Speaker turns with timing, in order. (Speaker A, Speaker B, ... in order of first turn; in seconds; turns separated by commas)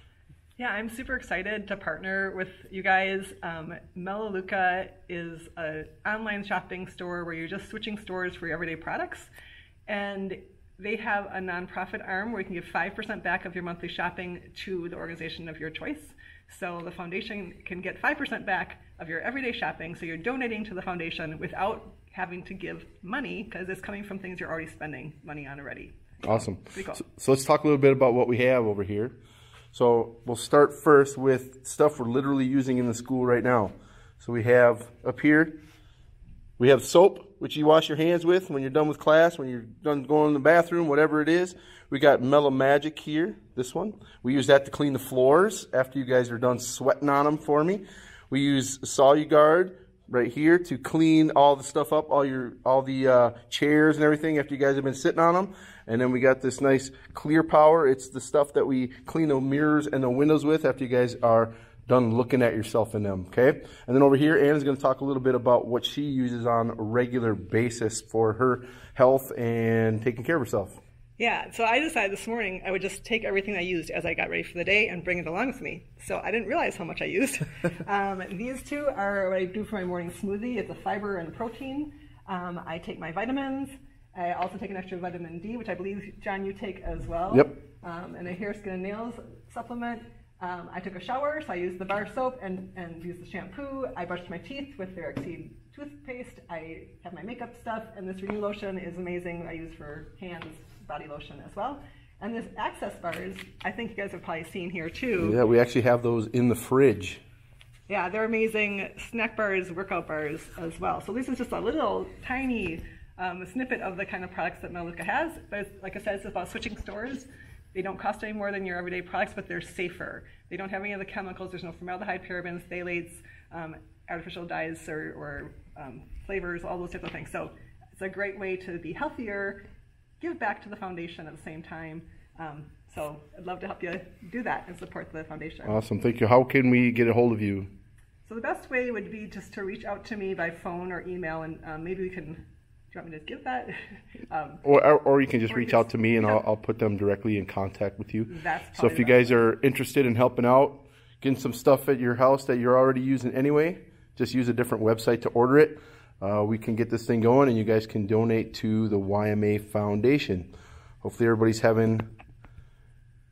Speaker A: 0.6-9.3, Speaker A: 9.9-27.0, Speaker B: 26.2-29.2, Speaker B: 29.7-35.5, Speaker B: 36.6-70.8, Speaker A: 71.2-105.4, Speaker B: 105.2-107.2, Speaker A: 107.9-129.6, Speaker A: 130.2-135.8, Speaker B: 135.6-137.7, Speaker A: 138.2-144.6, Speaker B: 144.6-160.5, Speaker A: 145.5-146.4, Speaker A: 148.3-149.4, Speaker B: 161.0-162.1